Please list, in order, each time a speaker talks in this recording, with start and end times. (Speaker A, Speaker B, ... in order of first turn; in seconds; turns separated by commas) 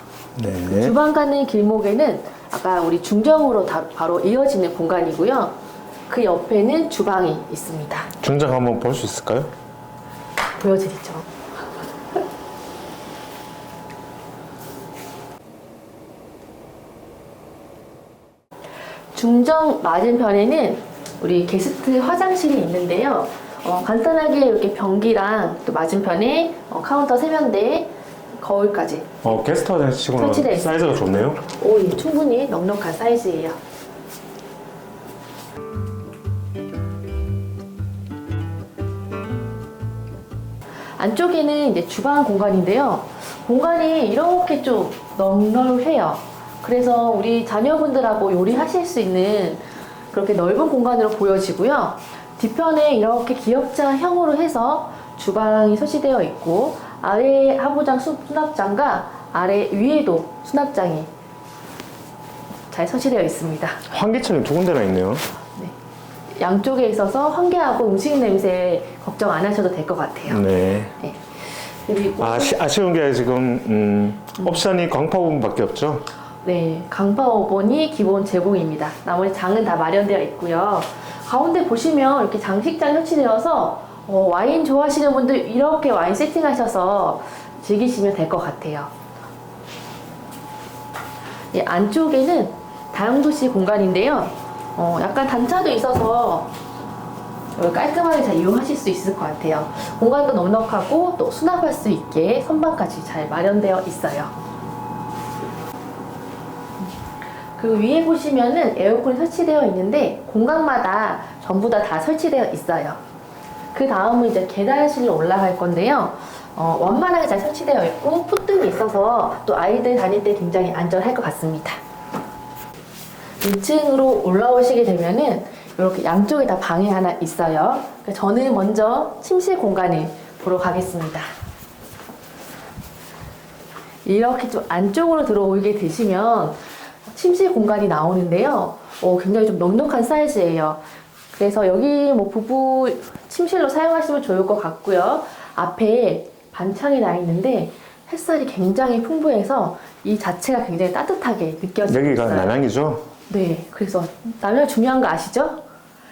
Speaker A: 0.3-0.9, Speaker B: 0.6-5.6, Speaker B: 6.1-8.1, Speaker A: 8.2-9.5, Speaker B: 10.6-11.3, Speaker B: 19.1-29.2, Speaker A: 29.2-31.4, Speaker B: 30.2-30.7, Speaker B: 31.4-33.6, Speaker B: 41.0-61.1, Speaker B: 62.7-63.8, Speaker A: 63.9-65.2, Speaker B: 66.4-70.4, Speaker A: 70.3-70.9, Speaker B: 71.8-72.6, Speaker A: 72.2-76.1, Speaker B: 76.4-88.9, Speaker B: 91.5-96.5, Speaker B: 97.5-104.3, Speaker B: 107.6-113.0, Speaker B: 113.7-121.8, Speaker B: 123.4-131.3, Speaker B: 134.0-140.8, Speaker B: 141.3-152.6, Speaker A: 151.9-153.1, Speaker B: 153.3-155.6